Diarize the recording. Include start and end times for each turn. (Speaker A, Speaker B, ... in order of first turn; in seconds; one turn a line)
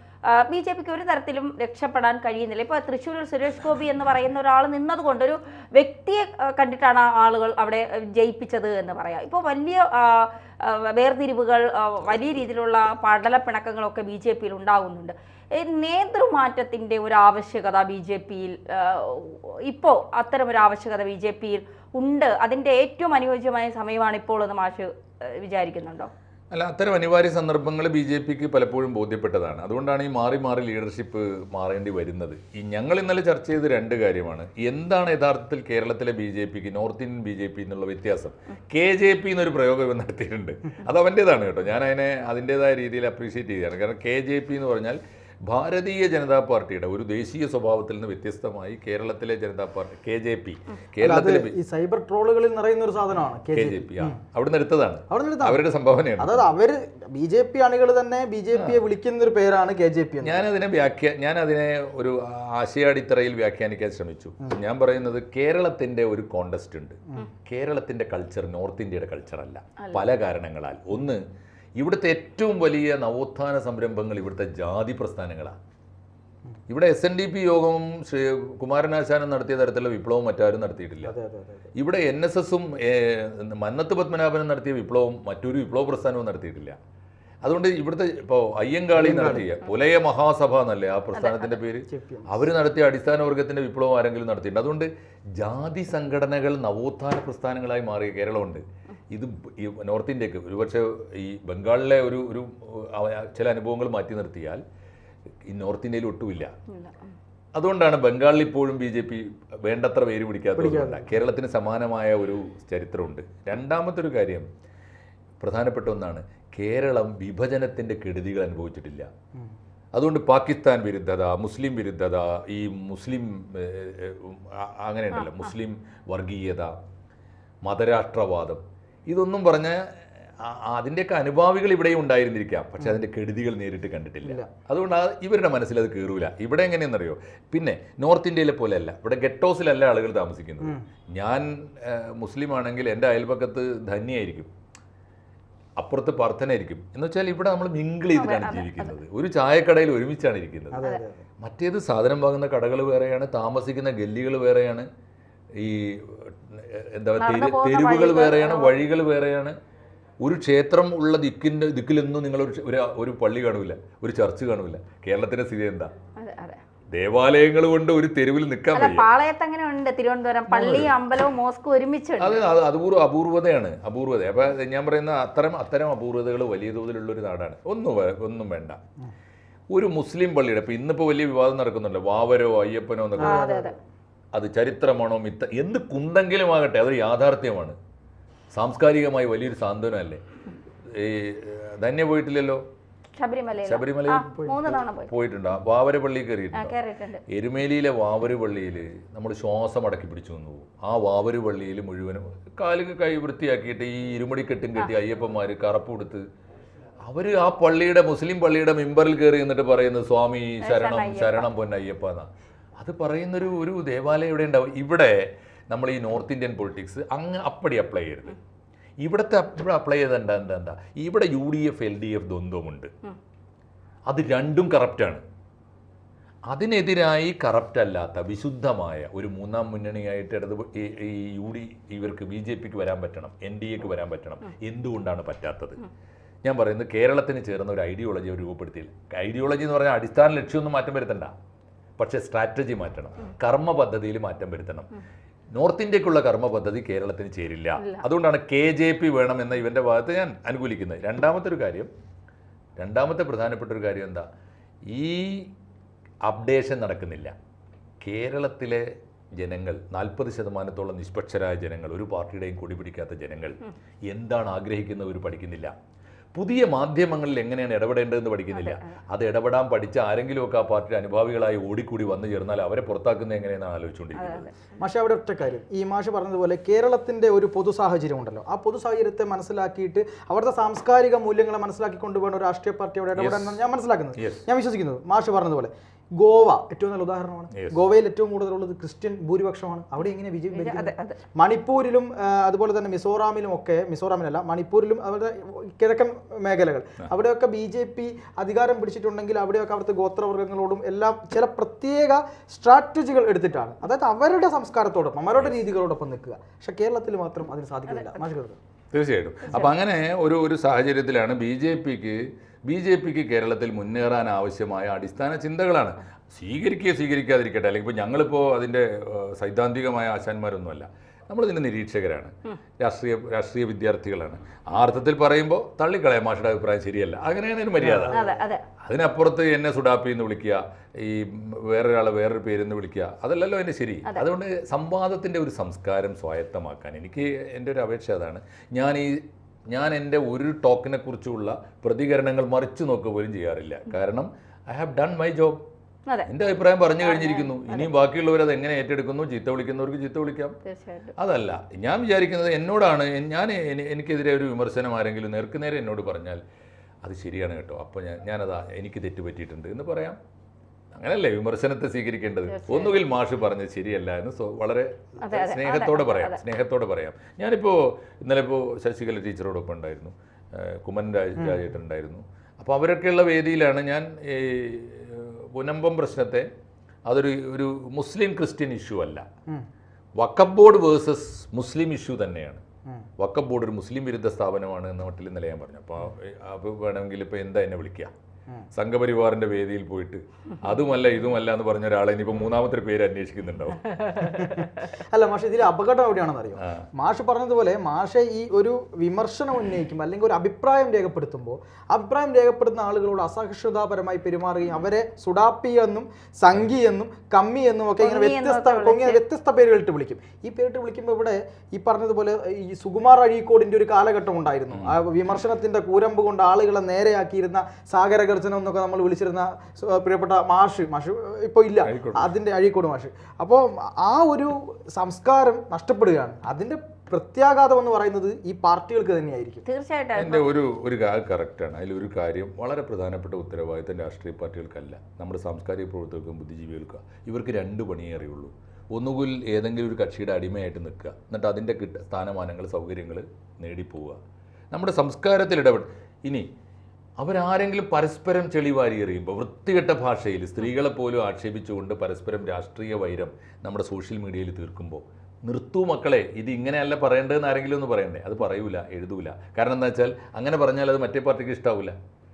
Speaker A: 0.3-26.1
Speaker B: 26.5-51.5
Speaker C: 51.0-54.2
Speaker B: 53.5-56.5
Speaker C: 55.1-55.6
Speaker C: 56.2-60.5
Speaker B: 58.5-58.8
Speaker B: 60.2-71.2
Speaker B: 71.8-75.6
Speaker B: 76.7-81.2
Speaker C: 81.0-81.7
Speaker B: 81.8-86.8
Speaker B: 87.4-104.6
Speaker C: 88.9-89.5
Speaker A: 91.2-91.6
Speaker C: 91.9-92.5
Speaker B: 105.5-106.5
Speaker A: 106.7-107.1
Speaker B: 107.5-114.5
Speaker C: 110.6-111.2
Speaker B: 115.4-119.1
Speaker B: 119.9-126.8
Speaker A: 125.1-125.5
Speaker B: 127.6-129.8
Speaker B: 130.4-144.5
Speaker C: 134.2-134.5
Speaker B: 145.8-150.8
Speaker A: 148.1-148.9
Speaker C: 150.7-151.2
Speaker B: 151.4-154.9
Speaker B: 155.6-159.6
Speaker A: 157.2-158.8
Speaker B: 160.2-165.9
Speaker A: 166.2-166.6
Speaker B: 166.9-169.1
Speaker A: 168.7-172.4
Speaker B: 170.5-170.9
Speaker B: 172.2-178.8
Speaker B: 179.7-183.5
Speaker C: 183.2-183.8
Speaker A: 183.2-183.8
Speaker B: 184.3-187.8
Speaker B: 188.5-190.2
Speaker B: 190.9-192.6
Speaker A: 193.2-195.1
Speaker B: 193.6-194.3
Speaker C: 194.4-194.8
Speaker B: 195.1-196.8
Speaker A: 196.5-197.2
Speaker B: 197.3-206.2
Speaker B: 207.1-212.3
Speaker A: 210.6-211.5
Speaker B: 212.8-218.4
Speaker B: 219.0-222.9
Speaker B: 224.1-225.2
Speaker B: 226.5-235.8
Speaker B: 236.4-241.3
Speaker B: 242.0-244.9
Speaker B: 245.5-251.9
Speaker A: 247.8-248.1
Speaker B: 252.8-254.3
Speaker B: 254.9-255.5
Speaker B: 256.2-257.3
Speaker B: 258.0-258.9
Speaker B: 259.4-265.7
Speaker B: 266.3-274.5
Speaker A: 268.5-269.0
Speaker A: 274.2-274.5
Speaker C: 274.8-308.6
Speaker B: 283.1-283.6
Speaker B: 284.2-284.5
Speaker B: 287.5-287.8
Speaker A: 290.5-291.2
Speaker B: 305.4-305.6
Speaker A: 307.9-308.2
Speaker B: 308.9-328.2
Speaker A: 309.5-309.8
Speaker C: 327.8-328.3
Speaker A: 328.1-328.6
Speaker B: 328.8-345.6
Speaker B: 346.3-350.6
Speaker A: 347.0-347.9
Speaker A: 350.6-351.1
Speaker B: 351.2-356.4
Speaker B: 357.0-360.2
Speaker B: 360.9-376.5
Speaker A: 362.5-363.1
Speaker A: 365.2-366.4
Speaker C: 371.4-371.7
Speaker B: 377.1-379.2
Speaker B: 380.2-382.6
Speaker B: 383.2-388.1
Speaker B: 388.7-394.0
Speaker C: 394.2-429.6
Speaker B: 396.6-396.9
Speaker A: 408.0-409.2
Speaker B: 414.7-415.0
Speaker B: 421.8-422.3
Speaker A: 429.7-430.5
Speaker B: 430.2-444.2
Speaker B: 444.7-446.5
Speaker B: 447.2-461.9